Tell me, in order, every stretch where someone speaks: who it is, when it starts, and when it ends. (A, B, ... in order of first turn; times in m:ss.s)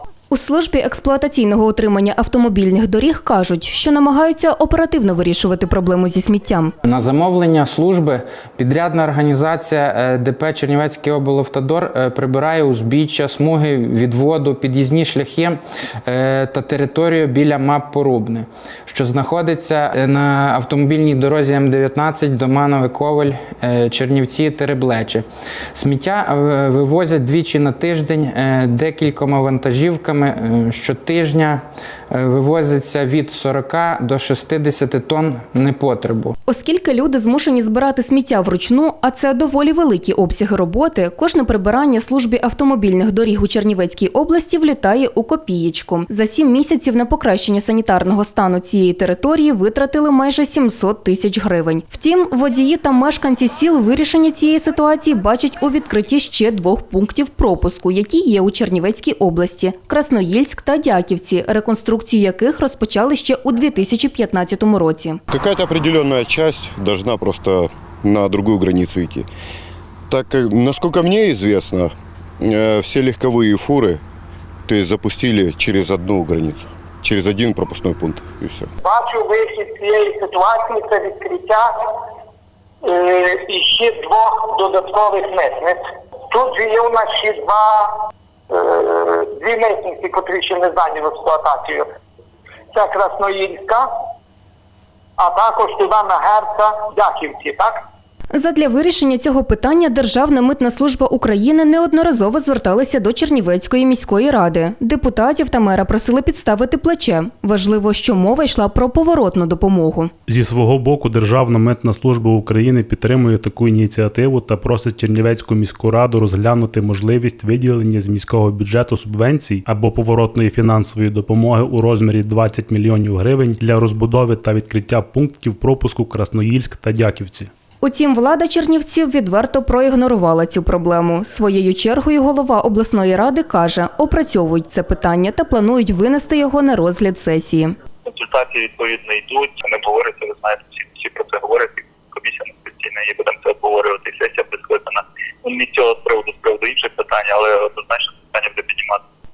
0:00.3-0:06.7 A
0:06.8-0:36.3 B
0:36.4-1:05.2 A
1:05.3-1:09.3 C
1:10.1-1:14.0 C
1:14.7-1:18.7 C
1:18.8-1:21.7 D
1:22.8-1:28.0 D
1:28.5-1:31.9 D
1:32.7-1:33.9 D
1:35.2-1:37.8 D
1:38.3-1:50.1 A
1:50.3-2:07.5 E
2:07.8-2:17.8 A
2:18.0-2:29.0 F